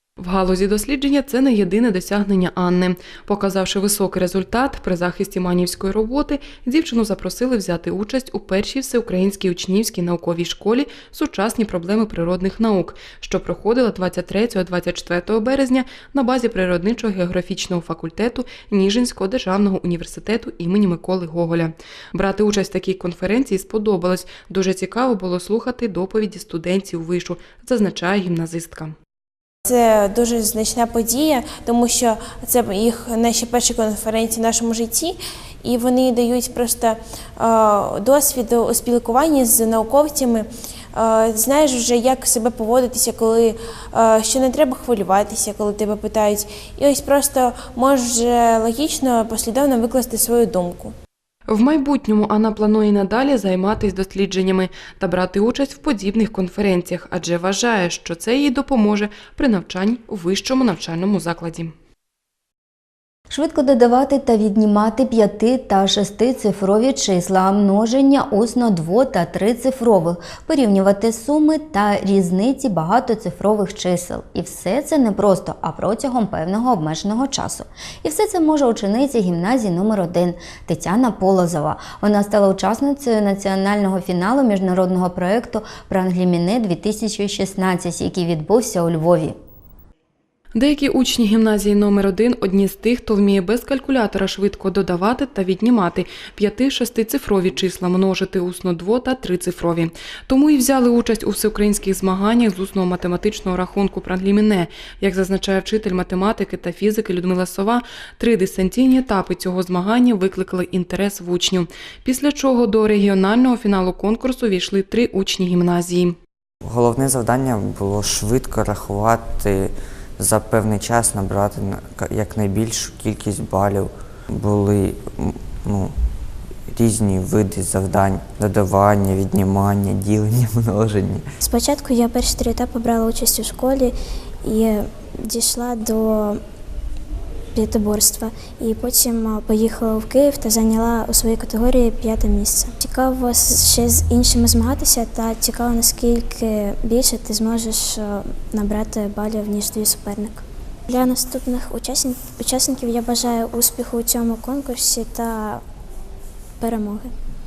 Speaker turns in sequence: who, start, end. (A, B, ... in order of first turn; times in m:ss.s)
0:00.2-0:28.9 A
0:29.6-0:50.9 B
0:51.5-1:01.7 A
1:03.3-1:29.4 C
1:30.5-1:56.2 A
1:56.6-2:06.0 D
2:06.7-2:11.2 D
2:11.4-2:13.9 E
2:14.4-2:16.4 E
2:17.5-2:35.6 E
2:36.6-2:37.1 E